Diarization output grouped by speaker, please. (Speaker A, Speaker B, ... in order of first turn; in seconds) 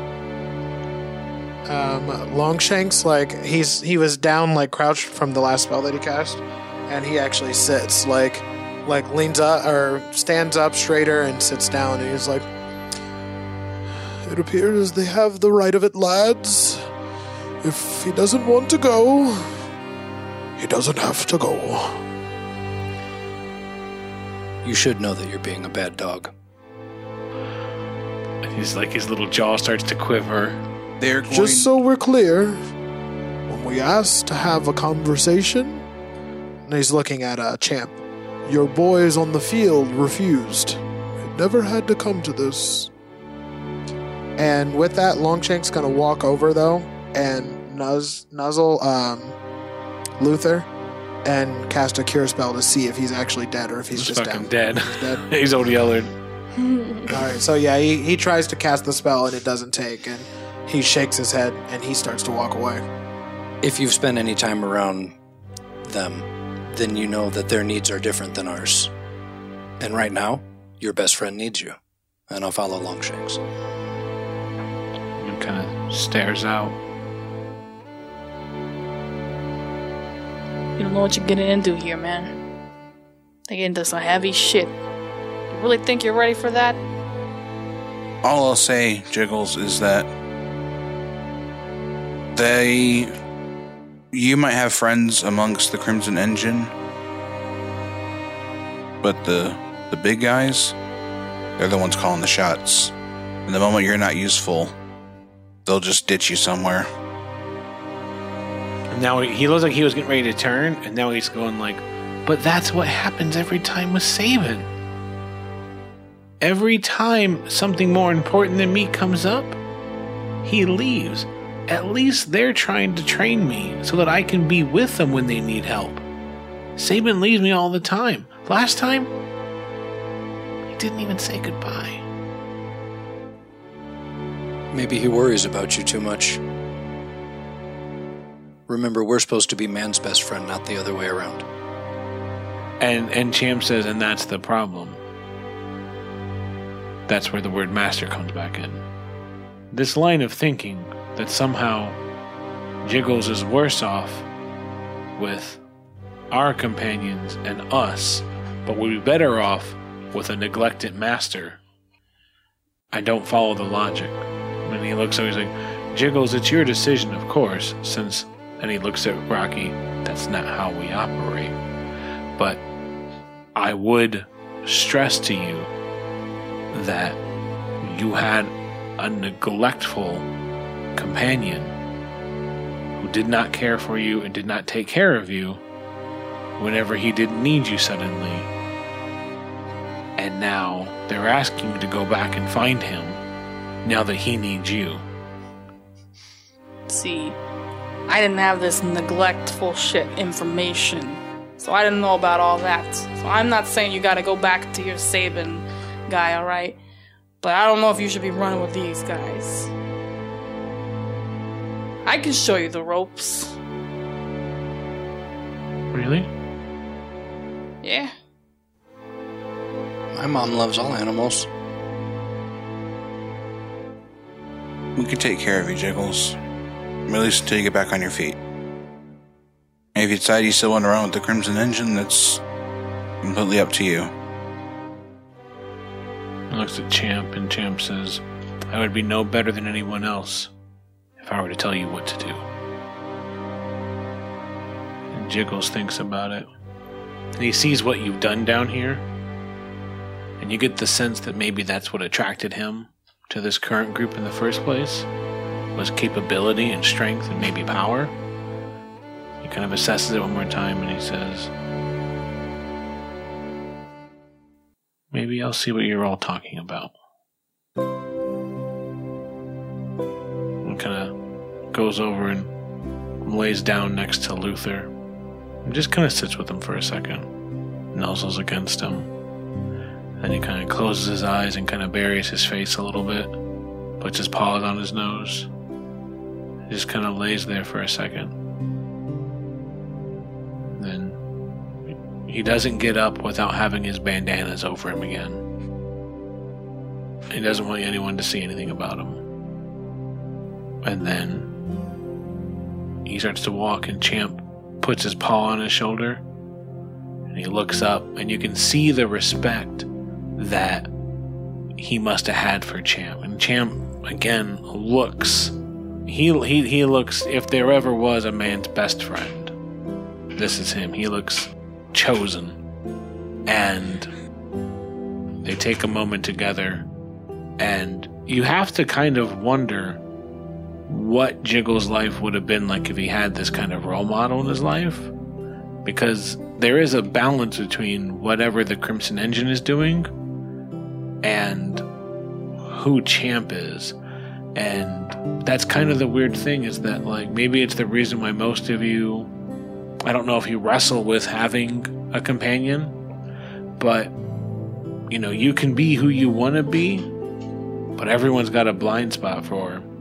Speaker A: 1.6-12.4, 14.2-16.8, 17.6-19.6, 20.6-22.0, 31.3-32.6, 33.5-35.8, 36.6-42.9, 44.4-49.4, 50.2-50.7, 51.2-55.2, 57.1-62.9
Speaker B: 24.6-26.3, 63.6-65.2, 65.8-68.9, 69.8-71.8, 72.3-73.4, 134.7-136.4, 138.7-141.4, 220.1-221.5
Speaker C: 28.4-30.6, 53.9-56.1, 75.2-76.8, 108.9-114.7, 116.4-119.6, 120.4-126.0, 126.8-129.1, 130.7-132.0, 142.8-145.0, 147.1-148.8, 149.7-152.0, 152.8-154.3, 155.2-155.6, 156.3-161.6, 162.9-171.6, 173.5-175.7, 176.7-177.2, 177.8-180.3, 180.9-181.7, 182.9-185.6, 186.6-188.5, 190.2-193.2, 193.8-195.0, 215.9-216.3, 236.5-240.5, 241.2-242.4, 245.1-246.5, 247.4-249.0, 250.4-255.1, 255.7-258.1, 259.4-261.5, 265.1-266.9, 270.6-271.1, 271.7-272.5, 273.2-274.9, 275.6-277.3, 277.9-279.1, 280.2-283.4, 284.0-285.5, 286.7-288.3, 290.8-291.2, 291.9-295.4, 297.3-299.2, 300.8-301.5, 303.0-306.2, 307.3-310.9, 311.8-315.5, 316.1-319.5, 320.4-322.6, 323.4-324.1, 325.4-326.9, 327.6-330.0, 330.9-335.1, 335.9-340.1, 341.2-341.9, 342.6-343.9, 344.5-349.3, 350.0-352.9, 353.8-354.1, 355.1-357.1, 357.9-359.9
Speaker D: 31.0-31.7, 88.2-90.1, 92.3-93.1, 94.1-96.7, 99.0-100.7, 101.6-102.9, 103.5-104.7, 105.7-106.9, 224.9-226.4, 227.1-228.4, 229.9-232.4, 233.2-234.1
Speaker E: 56.6-57.1, 80.8-82.3, 83.5-84.7, 85.5-86.8, 196.9-197.4, 198.1-206.8, 207.4-209.7, 212.0-213.6, 217.8-218.1